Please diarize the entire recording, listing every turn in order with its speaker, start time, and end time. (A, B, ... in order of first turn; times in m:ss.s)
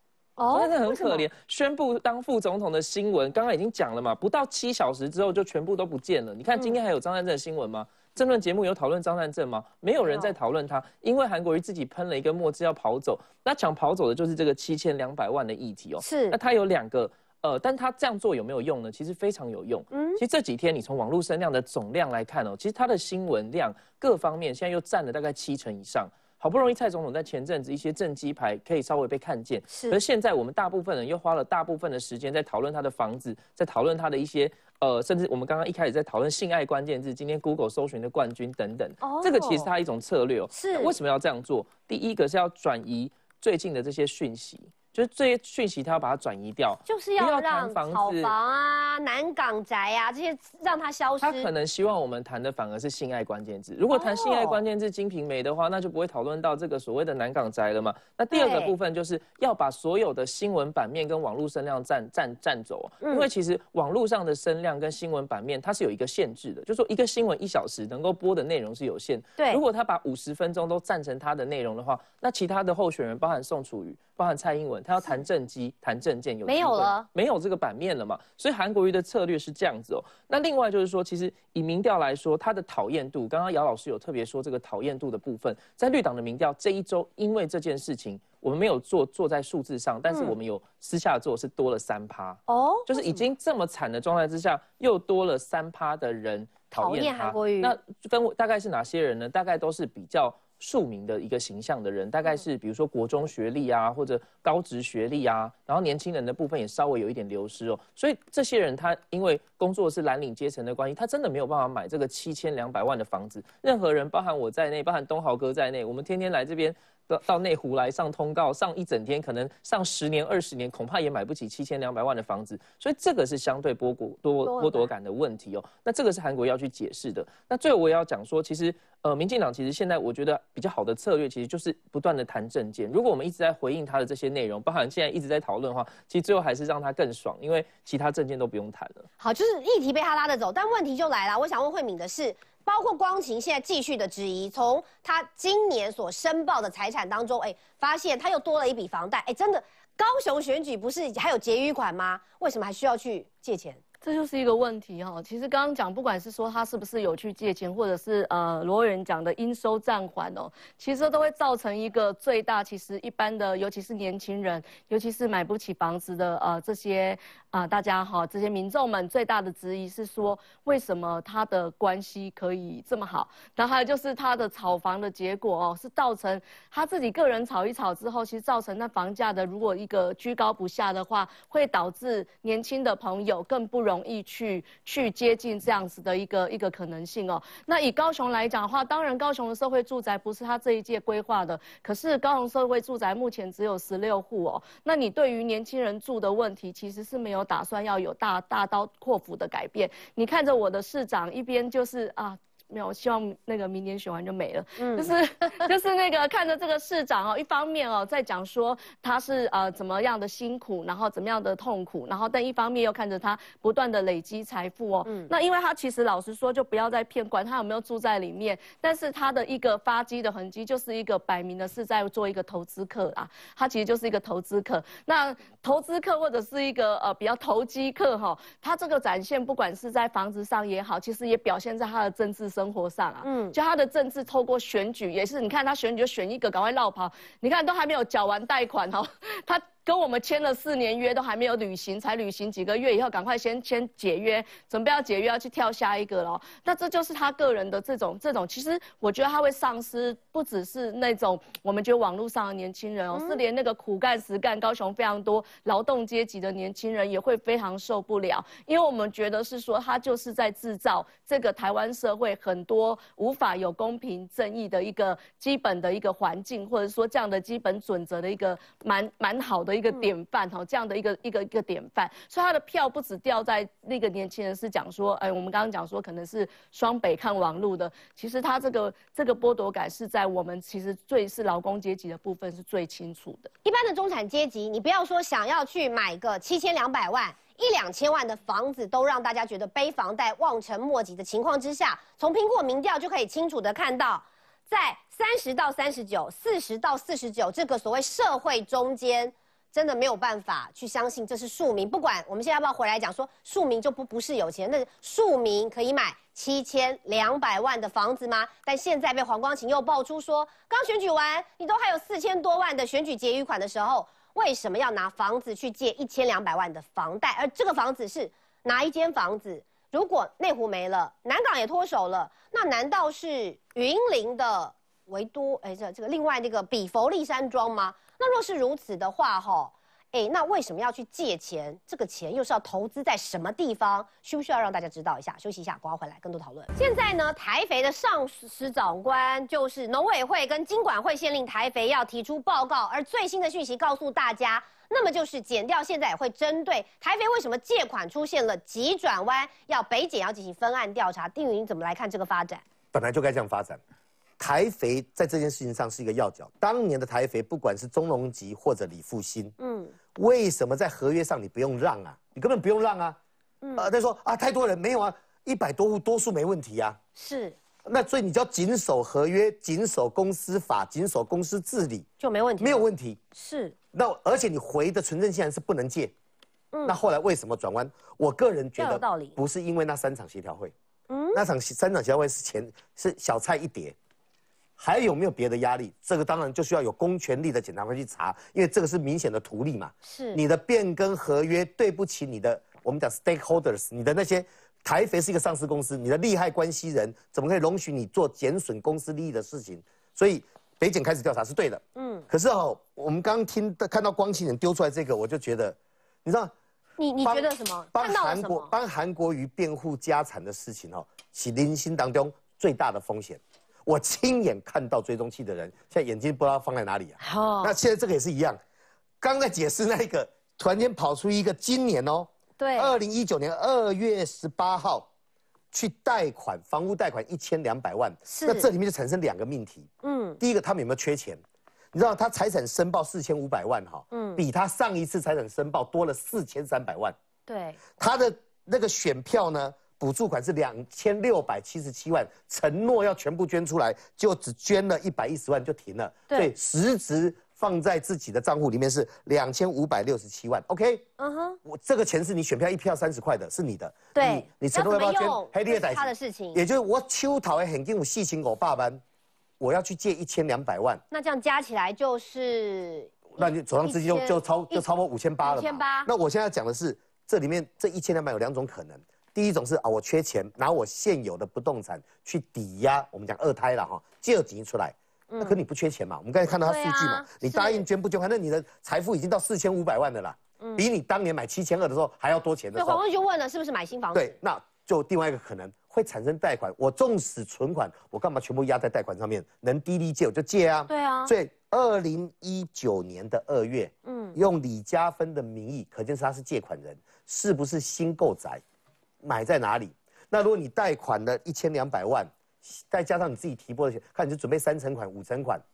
0:00.4-0:01.2 A
0:00.5-0:48.3 B
0:10.0-0:10.3 A
0:16.0-0:16.4 A
0:19.9-0:20.2 A
0:29.7-0:30.0 A
0:39.0-0:39.7 A
0:40.5-0:40.9 A
0:46.8-0:51.5 A
0:51.2-2:19.1 B
0:53.9-0:54.6 A
0:58.3-0:58.7 A
1:03.0-1:03.3 A
1:16.4-1:17.0 A
1:30.1-1:30.3 A
1:32.5-1:33.3 A
1:36.7-1:37.7 A
2:04.4-2:04.9 A
2:19.2-2:33.8 A
2:34.0-4:43.5 C
3:24.8-3:25.1 A
3:35.0-3:35.3 A
3:53.2-3:53.6 A
4:13.1-4:13.4 A
4:43.6-5:52.6 A
5:52.9-5:53.8 D
5:54.4-5:59.5 D
5:59.6-5:59.9 A
6:00.1-6:03.2 D
6:03.6-6:03.9 A
6:03.8-6:07.0 D
6:07.2-6:07.6 A
6:07.8-6:12.0 D
6:12.2-6:13.7 A
6:12.6-6:13.2 D
6:13.9-6:16.1 D
6:16.8-6:20.7 D
6:18.8-6:19.4 A
6:21.1-6:21.4 A
6:21.3-6:23.9 D
6:24.8-6:46.5 D
6:30.0-6:30.4 A
6:42.0-6:42.3 A
6:47.0-6:48.7 A
6:47.2-6:58.6 D
6:57.2-6:57.7 A
6:59.2-7:05.1 D
7:02.6-7:02.9 A
7:05.7-7:09.9 D
7:08.2-7:08.7 A
7:10.0-7:10.4 A
7:10.4-7:11.4 D
7:11.9-7:17.1 D
7:14.1-7:14.4 A
7:17.5-7:17.8 A
7:18.0-7:31.0 D
7:31.2-7:31.6 A
7:31.6-7:39.0 D
7:34.1-7:36.6 A
7:39.6-7:41.0 D
7:41.1-7:44.9 A
7:43.4-8:03.0 D
7:45.4-7:46.1 A
7:55.3-7:55.6 A
7:56.6-7:57.8 A
8:02.7-8:04.3 A
8:04.1-8:18.6 D
8:10.9-8:11.3 A
8:14.0-8:14.4 A
8:19.2-8:25.6 D